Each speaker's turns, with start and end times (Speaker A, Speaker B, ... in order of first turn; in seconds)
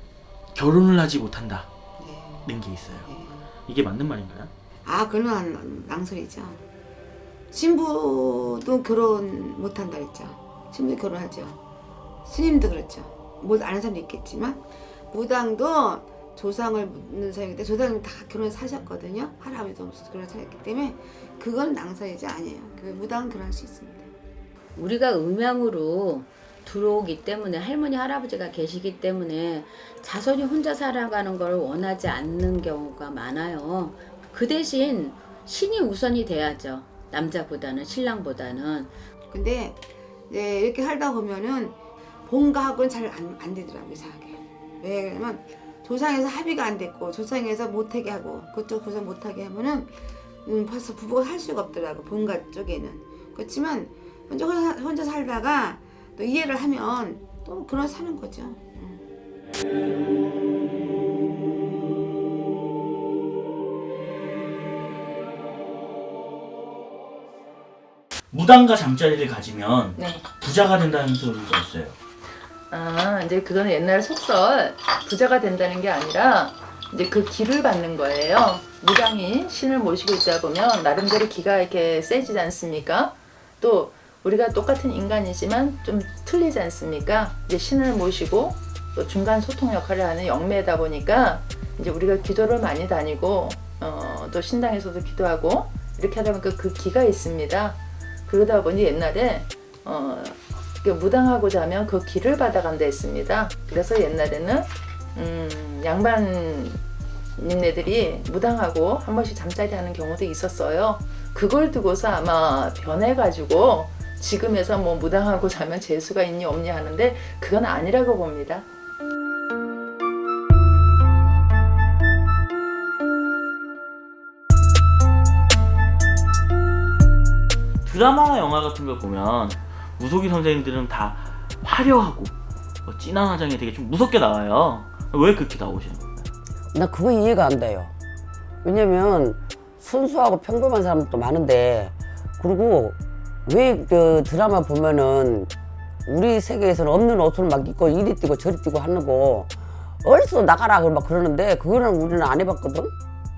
Speaker A: 0.5-1.7, 2.4-3.1, 3.6-4.5, 68.3-72.0, 127.8-132.3, 132.8-136.3
Speaker B: 2.0-3.5, 4.8-6.6, 7.5-11.6, 12.2-24.1, 39.3-59.0
Speaker C: 24.8-38.9
Speaker D: 70.0-70.3, 72.7-106.8, 107.4-118.6
Speaker E: 136.7-137.9, 138.6-145.5, 146.1-149.5, 150.0-152.9